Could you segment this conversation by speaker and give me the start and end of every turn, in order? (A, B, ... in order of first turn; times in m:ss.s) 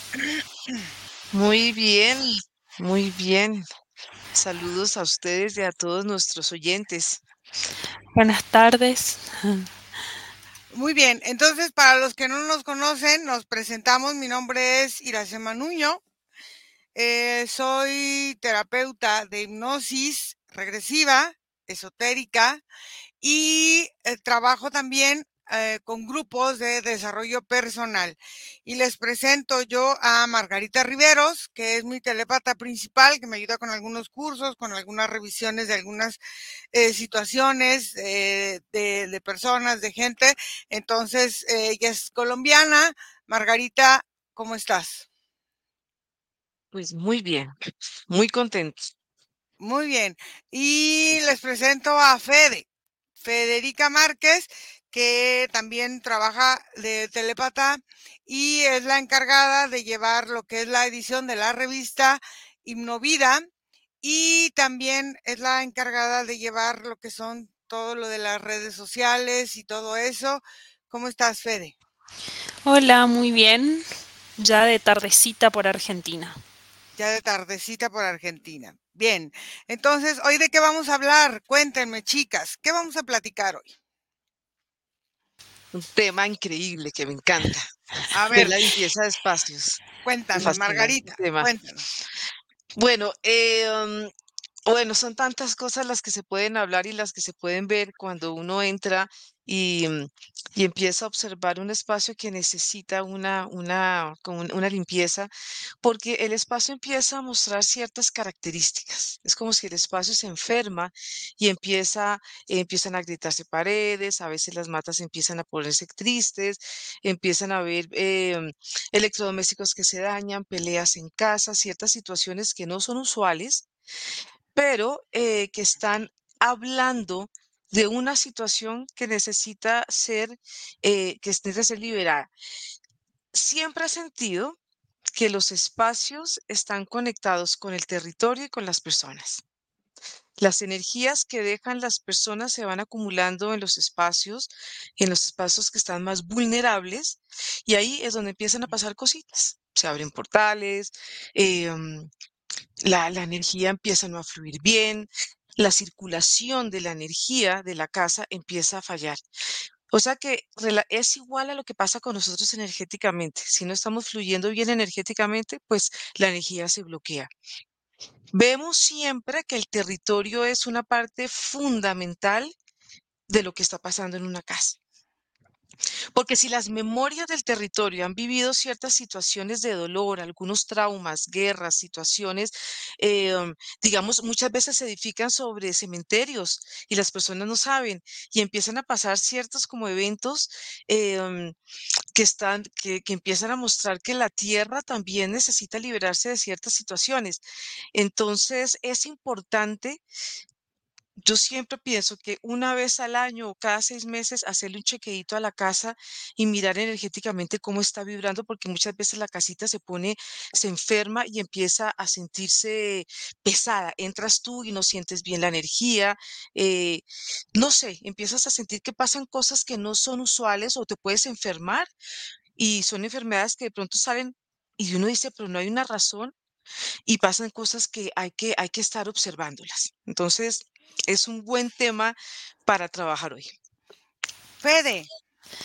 0:01.3-0:03.6 A
0:04.3-0:07.2 A
0:08.1-0:09.7 B
0:10.7-0:16.0 C
0:17.0-0:22.6 C
0:23.2-0:36.2 C
0:36.7-0:45.0 C
0:46.7-0:47.5 A
0:48.1-0:48.9 A
0:49.6-0:52.6 C
0:53.2-1:03.4 C
1:04.0-1:11.7 C
1:12.6-1:13.8 B
1:14.4-1:16.4 B
1:17.0-1:23.7 C
1:25.7-1:27.7 A
1:28.1-1:28.5 C
1:28.3-1:29.8 A
1:30.0-1:31.8 C
1:30.4-1:31.5 A
1:32.8-1:34.1 A
1:34.6-1:45.3 A
1:45.8-2:03.7 A
2:04.5-2:12.3 A
2:13.3-2:14.6 A
2:15.1-2:19.4 A
2:20.4-2:32.1 A
2:32.8-2:39.2 A
2:39.9-2:47.3 A
2:48.3-2:52.5 A
2:53.3-2:54.8 A
2:56.1-3:11.6 A
3:12.1-3:17.4 A
3:17.9-3:20.0 A
3:21.2-3:37.0 A
3:37.5-3:41.9 A
3:42.6-3:46.3 A
3:47.1-3:53.5 A
3:54.6-3:55.1 C